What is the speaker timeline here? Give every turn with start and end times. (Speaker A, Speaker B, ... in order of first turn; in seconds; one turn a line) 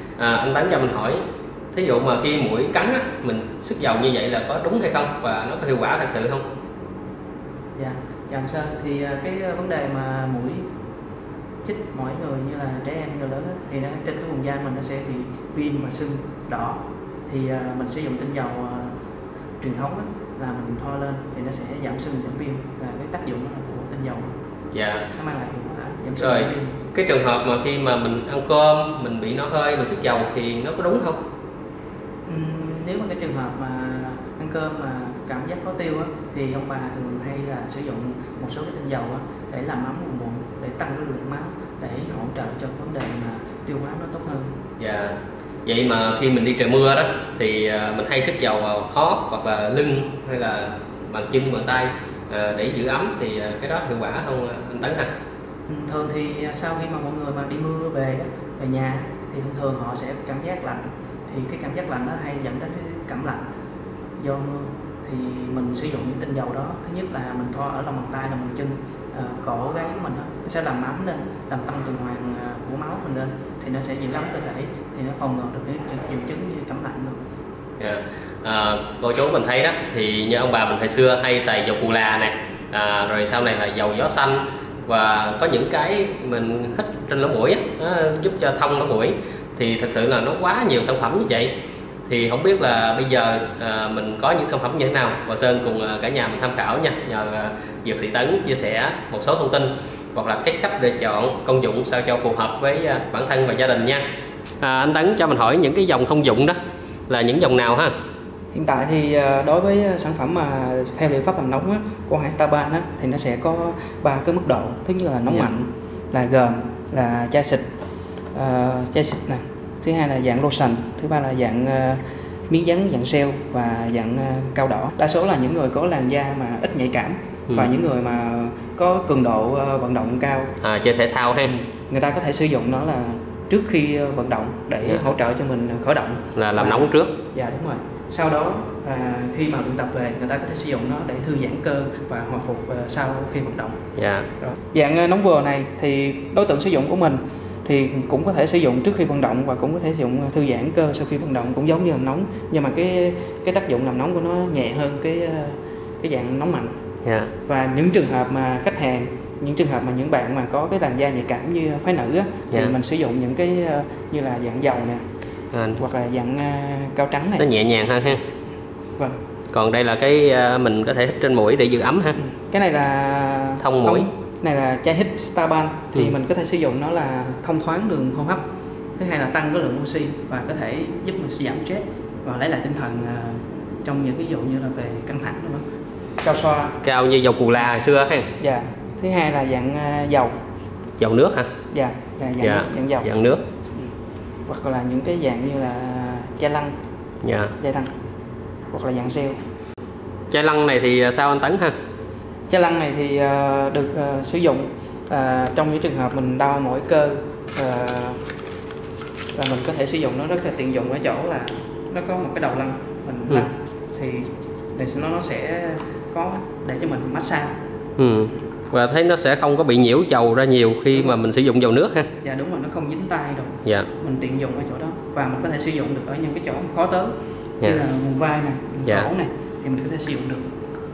Speaker A: 0.2-1.2
Speaker A: 1.7-6.5
Speaker B: 7.8-10.7
Speaker B: 11.6-18.9
Speaker B: 19.6-24.3
Speaker A: 24.7-25.1
Speaker B: 25.1-26.8
Speaker A: 26.2-31.2
Speaker B: 32.3-44.5
Speaker A: 44.8-55.1
Speaker B: 55.7-63.5
Speaker B: 64.2-77.2
Speaker A: 77.8-91.5
Speaker A: 92.1-104.0
Speaker A: 104.6-106.6
Speaker A: 107.1-107.9
Speaker B: 108.5-117.7
Speaker B: 118.3-130.5
Speaker A: 130.6-131.5
Speaker B: 131.4-143.8
Speaker A: 136.3-137.2
Speaker A: 144.0-144.3
Speaker B: 144.4-156.7
Speaker A: 157.1-157.3
Speaker B: 157.5-165.0
Speaker A: 165.5-165.8
Speaker B: 165.8-167.5
Speaker A: 167.4-168.2
Speaker A: 169.5-172.2
Speaker B: 172.2-178.4
Speaker A: 173.6-174.1
Speaker B: 179.0-185.6
Speaker B: 186.2-186.8
Speaker A: 186.8-188.3
Speaker B: 188.4-190.3
Speaker A: 191.0-191.5
Speaker B: 191.7-193.1
Speaker A: 192.4-193.4
Speaker B: 194.5-196.7
Speaker A: 197.2-197.5
Speaker B: 197.6-197.9
Speaker B: 198.7-199.4
Speaker A: 200.3-201.7
Speaker B: 202.5-208.2
Speaker B: 209.3-217.6
Speaker A: 218.0-222.1
Speaker B: 222.2-230.4